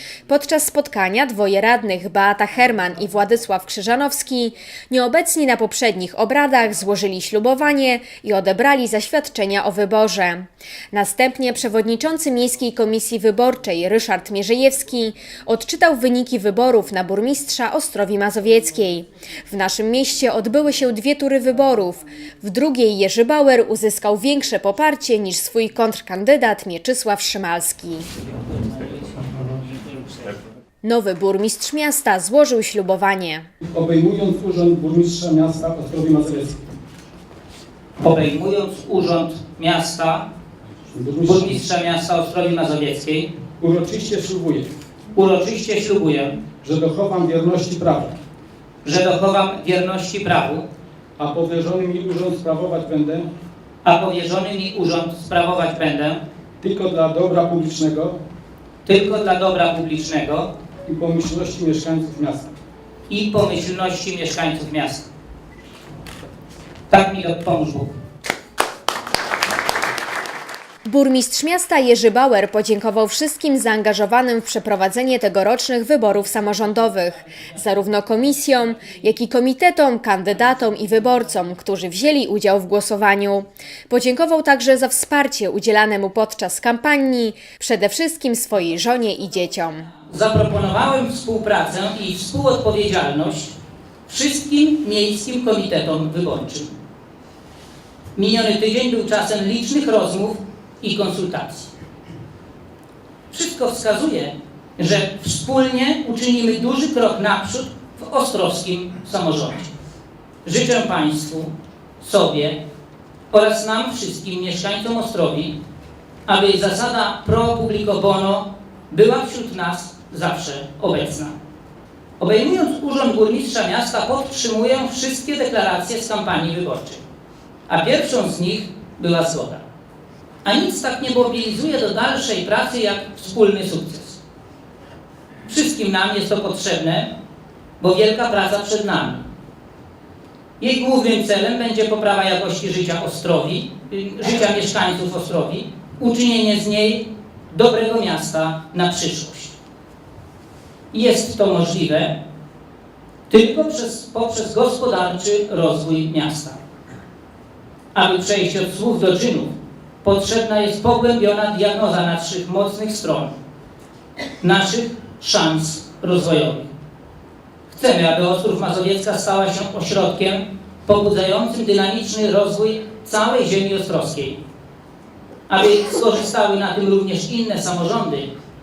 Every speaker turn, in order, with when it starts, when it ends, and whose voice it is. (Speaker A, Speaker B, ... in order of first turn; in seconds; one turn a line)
Speaker A: 0.3-28.1
Speaker A: 30.8-33.5
Speaker B: 33.6-36.6
Speaker C: 38.0-40.2
Speaker B: 40.9-41.5
Speaker C: 41.2-43.3
Speaker B: 43.6-44.7
Speaker C: 45.1-46.4
Speaker B: 46.6-48.1
Speaker C: 48.8-50.6
Speaker B: 51.2-53.3
Speaker C: 53.8-56.2
Speaker B: 56.6-58.2
Speaker C: 58.9-60.5
Speaker B: 60.9-62.5
Speaker C: 63.1-65.1
Speaker C: 66.9-67.9
Speaker A: 70.8-89.9
Speaker C: 90.1-93.5
Speaker C: 94.1-96.7
Speaker C: 98.2-101.7
Speaker C: 103.3-109.7
Speaker C: 110.4-112.6
Speaker C: 113.3-115.5
Speaker C: 116.3-121.3
Speaker C: 122.2-127.0
Speaker C: 127.7-129.6
Speaker C: 130.4-134.2
Speaker C: 135.4-137.1
Speaker C: 137.8-139.2
Speaker C: 140.6-149.5
Speaker C: 150.9-152.1
Speaker C: 153.3-156.6
Speaker C: 157.9-163.3
Speaker C: 164.4-166.7
Speaker C: 167.7-174.4
Speaker C: 175.5-178.3